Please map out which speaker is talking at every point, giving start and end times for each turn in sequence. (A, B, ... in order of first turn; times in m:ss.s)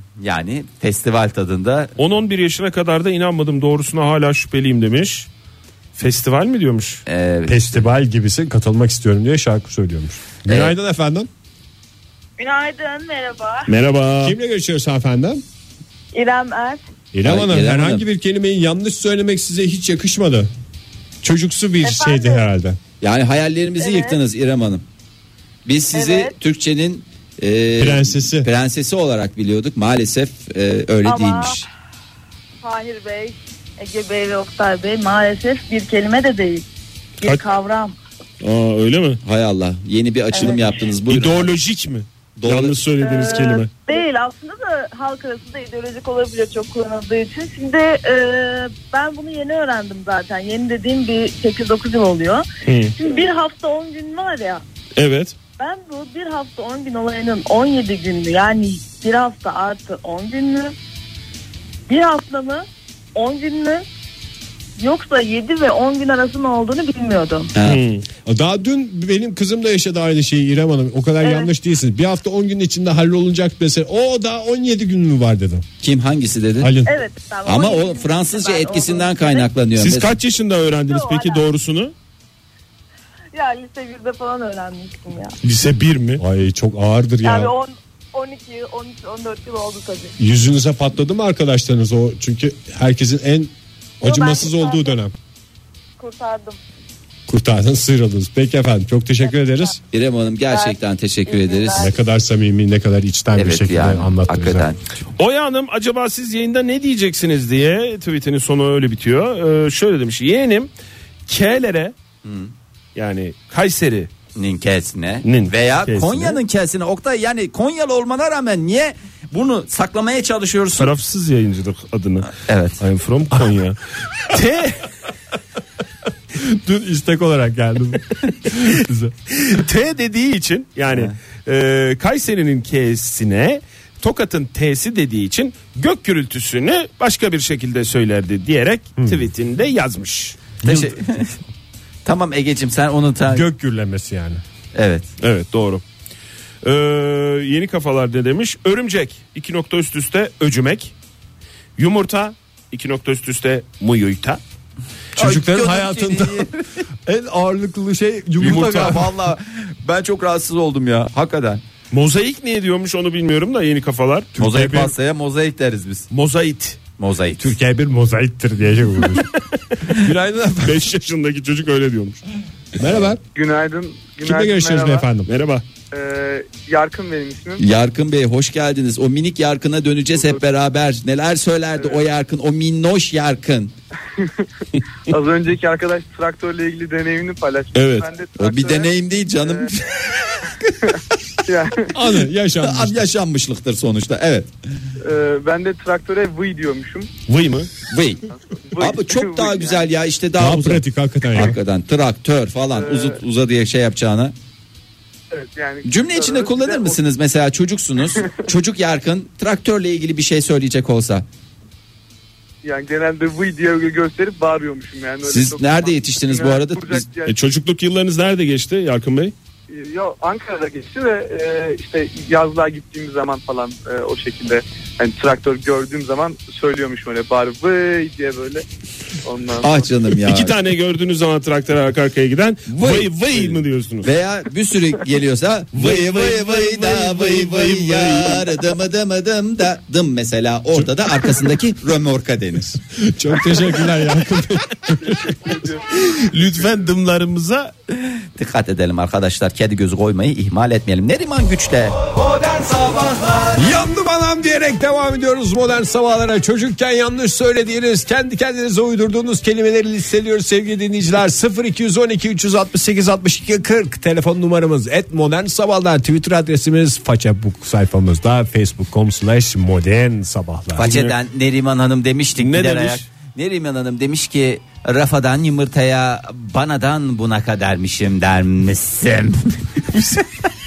0:00.2-0:01.9 A
0:02.0-0:05.3 B
0:05.9-0:07.0 B
0:07.1-0:07.8 A
0:07.4-0:11.3 C
0:10.5-0:10.7 A
0:12.4-0:13.7 D
0:13.7-0:14.4 B
0:14.2-0:15.4 C
0:16.1-0:16.8 D
0:17.1-0:20.5 C
0:17.2-0:18.0 A
0:21.2-0:22.8 C
0:21.8-0:22.4 D
0:23.0-0:24.8 A
0:23.8-0:24.2 D
0:25.6-0:31.6 A
0:25.9-0:26.3 D
0:27.8-0:28.5 C
0:31.0-0:31.6 D
0:32.6-0:36.6 D
0:37.2-0:38.0 D
0:38.4-0:39.2 B
0:39.2-0:41.5 A
0:40.3-0:40.6 D
0:41.0-0:43.7 B
0:42.4-0:42.8 A
0:43.0-0:54.6 D
0:52.6-0:52.9 B
0:55.0-0:55.3 B
0:55.6-1:00.7 D
1:01.9-1:03.8 D
1:04.8-1:07.5 D
1:07.6-1:07.8 A
1:07.6-1:08.0 B
1:08.2-1:15.6 C
1:11.2-1:11.5 D
1:15.8-1:16.7 A
1:16.6-1:17.0 C
1:16.8-1:19.5 D
1:17.4-1:20.1 A
1:19.8-1:21.9 B
1:20.9-1:21.5 D
1:23.3-1:25.4 D
1:25.4-1:26.2 B
1:26.2-1:27.5 C
1:27.2-1:30.2 D
1:30.2-1:35.1 C
1:34.0-1:35.0 D
1:36.0-1:36.6 D
1:37.3-1:39.8 C
1:39.3-1:39.7 D
1:39.9-1:41.9 A
1:40.5-1:41.9 D
1:41.8-1:44.7 C
1:43.3-1:44.8 A
1:45.2-1:50.7 B
1:51.3-1:51.9 B
1:52.2-1:52.5 A
1:52.9-1:54.1 B
1:54.3-2:00.9 A
1:55.2-1:56.4 B
2:00.8-2:04.8 B
2:02.4-2:02.8 A
2:06.3-2:09.1 C
2:09.3-2:20.5 B
2:19.0-2:19.3 C
2:20.6-2:21.0 C
2:20.6-2:21.4 A
2:22.0-2:23.5 A
2:23.3-2:24.4 C
2:24.7-2:25.1 A
2:25.2-2:25.8 B
2:26.6-2:30.9 B
2:31.8-2:34.4 B
2:35.2-2:36.5 C
2:35.2-2:36.5 A
2:37.0-2:39.1 C
2:38.4-2:41.6 A
2:38.4-2:38.9 B
2:41.9-2:44.3 B
2:44.4-2:44.9 C
2:44.4-2:46.1 A
2:46.1-2:46.8 B
2:47.0-2:47.5 A
2:47.4-2:49.3 C
2:49.9-2:51.0 C
2:50.6-2:52.2 B
2:52.8-2:53.2 C
2:53.3-2:55.1 E
2:54.2-2:55.3 C
2:55.3-2:55.6 B
2:55.9-2:57.6 E
2:57.6-3:03.7 A
3:01.8-3:02.1 E
3:04.2-3:04.4 E
3:05.1-3:09.7 E
3:07.7-3:08.1 B
3:08.4-3:10.7 A
3:11.4-3:11.9 E
3:11.9-3:13.1 C
3:12.6-3:14.5 A
3:15.0-3:17.1 E
3:17.3-3:17.7 B
3:17.9-3:18.2 A
3:18.4-3:19.8 E
3:18.8-3:24.3 A
3:20.4-3:21.6 C
3:22.7-3:23.2 E
3:25.3-3:27.0 E
3:25.8-3:31.2 A
3:32.6-3:37.4 E
3:35.2-3:37.1 A
3:37.2-3:39.3 B
3:39.7-3:48.6 E
3:49.2-3:49.7 E
3:49.6-3:50.5 A
3:50.2-3:54.1 B
3:52.7-4:02.8 A
3:55.7-3:58.6 B
4:03.0-4:05.4 C
4:05.1-4:05.8 E
4:05.9-4:07.7 B
4:07.9-4:13.6 A
4:13.6-4:30.9 C
4:30.8-4:39.9 A
4:30.8-4:31.2 B
4:32.4-4:33.0 B
4:39.9-4:40.2 B